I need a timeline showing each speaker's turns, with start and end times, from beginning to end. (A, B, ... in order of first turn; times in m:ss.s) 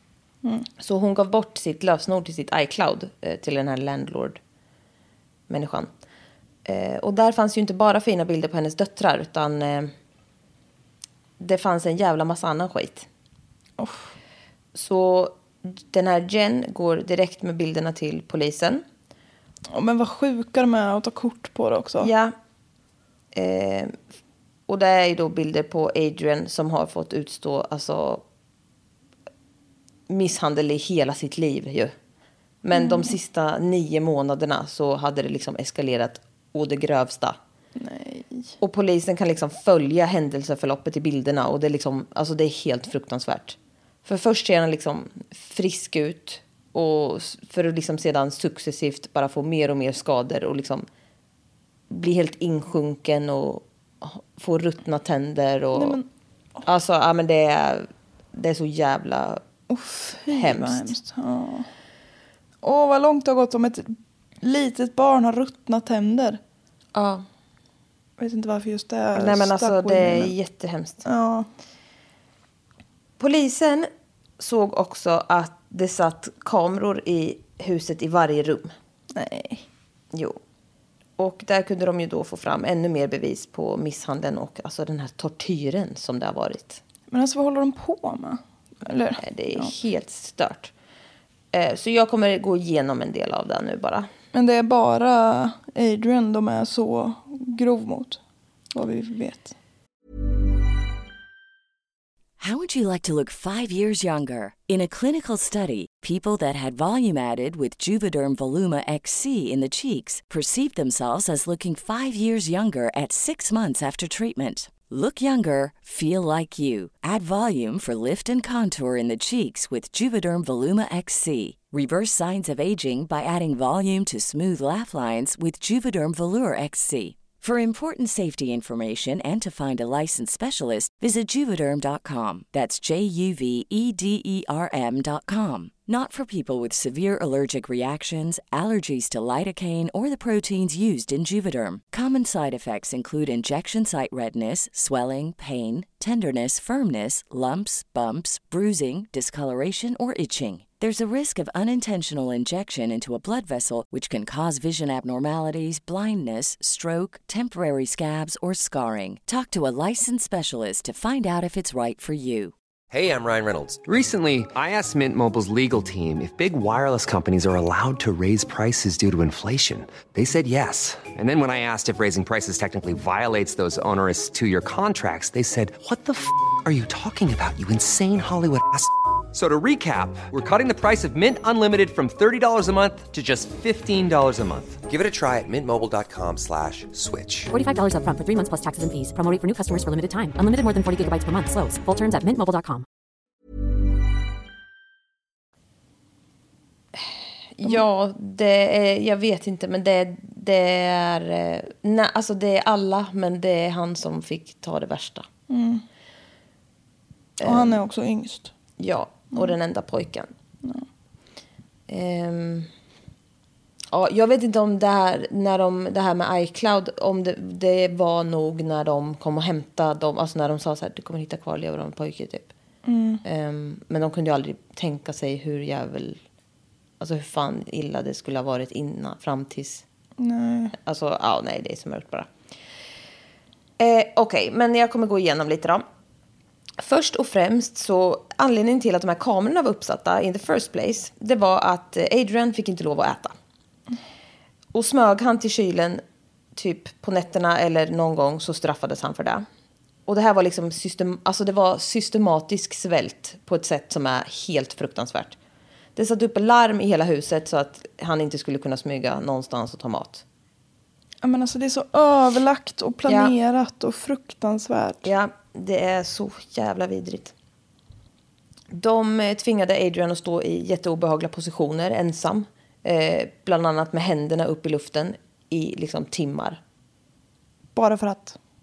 0:00.8-0:04.4 A
0:05.5-0:05.9 A
0:06.6-0:09.9 A
0:11.4-0:13.1 A
0:13.8-0:14.1 B
0:14.7-0:18.8 A
0:19.7-0:22.1 B
0:22.0-0:22.3 A
0:23.3-0:23.9 A
0:24.7-0:28.2 A
0:30.1-0:31.9 A
0:32.6-0:37.4 A
0:32.7-0:33.1 B
0:37.8-0:38.6 B
0:38.6-0:50.8 A
0:51.9-0:56.0 A
0:55.7-0:56.0 B
0:56.6-0:59.4 A
0:59.7-1:01.7 B
1:00.3-1:00.9 A
1:02.6-1:06.4 B
1:06.9-1:07.2 A
1:08.2-1:10.3 B
1:09.1-1:11.0 A
1:11.0-1:11.5 B
1:13.2-1:18.7 A
1:19.1-1:19.6 B
1:20.1-1:20.4 A
1:21.2-1:26.8 A
1:27.1-1:29.7 B
1:29.2-1:30.7 A
1:31.5-1:34.1 A
1:34.3-1:38.2 B
1:38.7-1:39.5 B
1:42.4-2:42.5 C
2:42.9-3:07.5 D
3:07.5-3:12.8 E
3:17.0-3:25.3 A
3:25.5-3:25.8 B
3:27.4-3:27.8 A
3:27.4-3:28.5 B
3:28.8-3:30.3 A
3:31.9-3:32.7 A
3:33.9-3:42.5 A
3:42.8-3:43.2 B
3:43.2-3:46.2 A
3:47.0-3:49.8 A
3:50.2-3:50.7 B
3:50.8-3:52.3 A
3:53.8-3:55.8 A
3:56.8-4:03.3 A
4:04.7-4:06.0 A
4:06.5-4:09.4 A
4:10.1-4:15.4 A
4:16.0-4:20.2 A
4:21.2-4:25.1 B
4:23.1-4:23.3 A
4:25.0-4:27.3 A
4:28.7-4:36.6 A
4:37.7-4:38.4 B